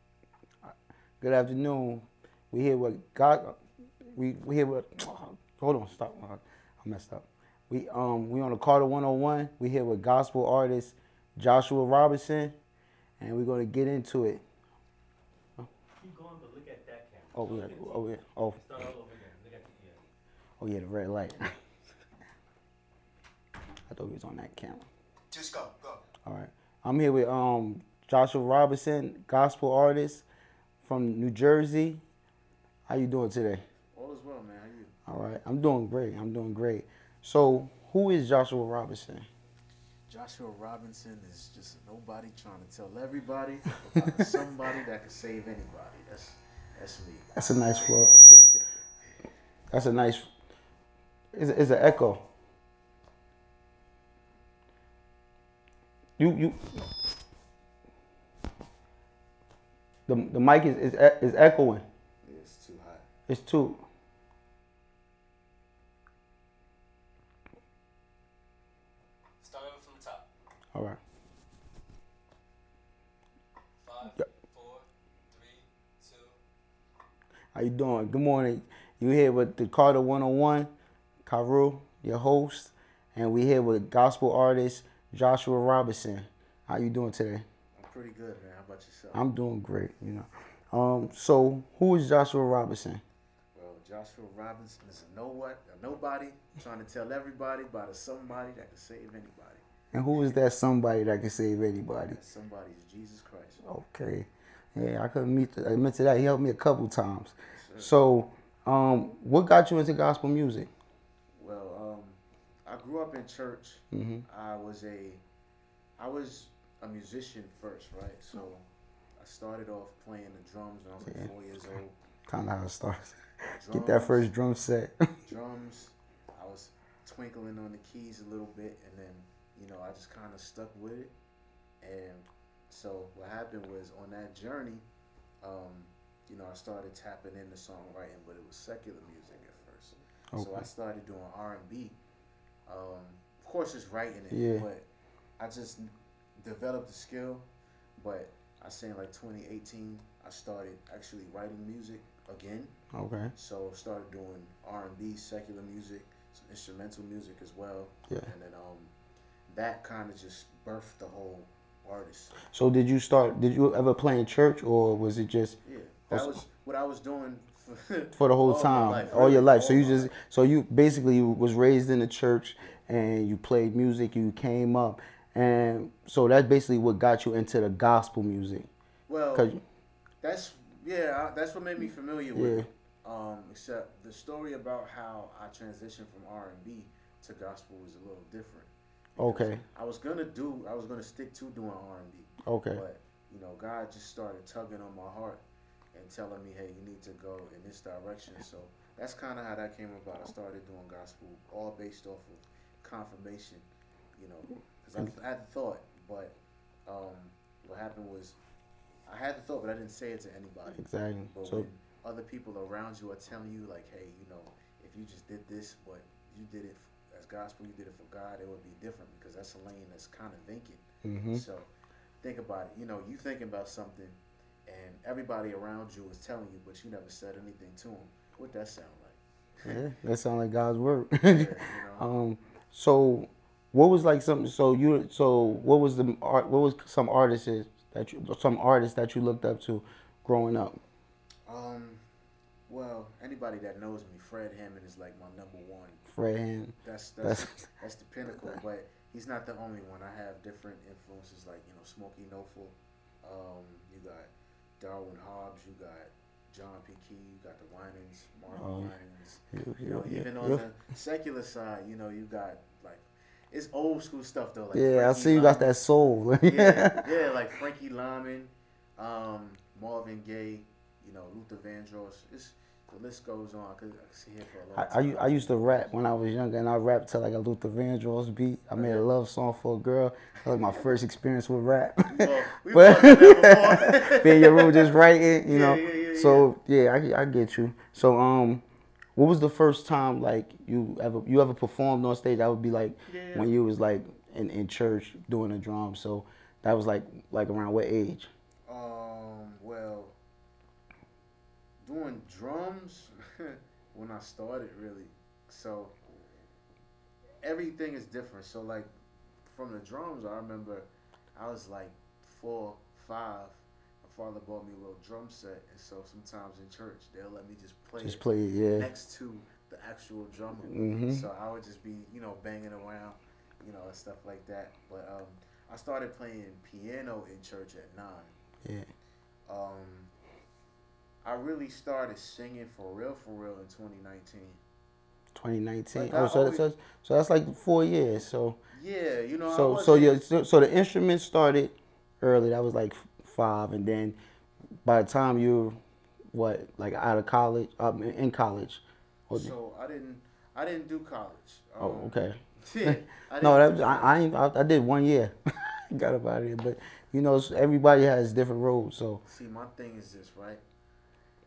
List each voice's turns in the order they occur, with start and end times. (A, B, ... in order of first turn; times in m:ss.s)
0:00.6-0:12.6 A
0:13.2-0:14.4 A
0:16.0-0:20.0 B
0:17.4-0:18.7 A
0:20.6-0:21.6 A
0:23.9-0:24.9 A
0:26.2-0:30.2 A
0:30.8-0:32.0 A
0:32.9-0:33.6 A
0:33.9-0:35.0 C
0:35.1-0:39.3 A
0:40.1-0:47.3 C
0:47.4-0:48.2 A
0:49.7-0:50.3 A
0:51.3-0:52.3 A
0:56.2-0:56.8 A
1:00.1-1:01.8 A
1:02.2-1:03.1 C
1:03.3-1:03.8 A
1:09.4-1:10.2 B
1:10.7-1:11.0 A
1:13.8-1:16.4 B
1:17.5-1:20.7 A
1:21.2-1:27.4 A
1:27.8-1:29.3 C
1:29.1-1:33.0 A
1:33.6-1:39.6 C
1:39.9-1:42.2 A
1:42.0-1:43.6 C
1:43.6-1:50.7 A
1:47.5-1:48.0 C
1:51.4-1:55.2 C
1:53.9-1:54.2 A
1:56.0-1:58.6 C
1:59.2-2:02.0 C
2:02.3-2:05.1 A
2:03.5-2:04.3 C
2:05.2-2:11.1 C
2:11.8-2:14.8 C
2:15.4-2:22.0 C
2:20.3-2:20.7 A
2:22.7-2:24.9 C
2:24.3-2:24.7 A
2:25.4-2:32.7 C
2:32.9-2:33.3 A
2:33.4-2:38.9 C
2:39.5-2:42.4 C
2:42.5-2:45.6 A
2:45.6-2:50.1 C
2:46.1-2:46.4 A
2:48.2-2:58.7 A
2:59.1-2:59.5 C
2:59.3-2:59.6 A
3:00.2-3:23.6 C
3:02.4-3:02.7 A
3:09.2-3:09.6 A
3:12.4-3:12.8 A
3:24.2-3:26.4 C
3:26.9-3:28.4 C
3:29.1-3:41.7 C
3:30.7-3:31.7 A
3:41.0-3:41.4 A
3:42.2-3:49.8 C
3:49.6-4:00.8 A
3:51.2-3:52.1 C
4:01.5-4:02.0 C
4:02.7-4:06.0 C
4:06.1-4:07.7 A
4:06.8-4:25.8 C
4:08.3-4:08.6 A
4:18.5-4:18.9 A
4:19.5-4:20.6 A
4:24.7-4:27.0 A
4:26.4-4:35.9 C
4:34.8-4:48.6 A
4:38.8-4:39.1 C
4:42.1-4:46.5 C
4:49.2-4:58.3 A
4:53.1-4:53.6 C
4:58.7-5:00.2 C
5:01.8-5:06.0 C
5:07.4-5:08.9 C
5:09.4-5:28.3 C
5:18.0-5:18.9 A
5:20.7-5:21.3 A
5:29.5-5:30.1 C
5:31.2-5:34.6 C
5:35.4-5:38.6 A
5:35.9-5:36.6 C
5:38.7-5:40.2 C
5:39.5-5:44.2 A
5:44.8-5:45.8 A
5:46.3-5:49.5 A
5:49.3-5:54.2 C
5:51.8-5:59.2 A
5:59.2-6:00.6 C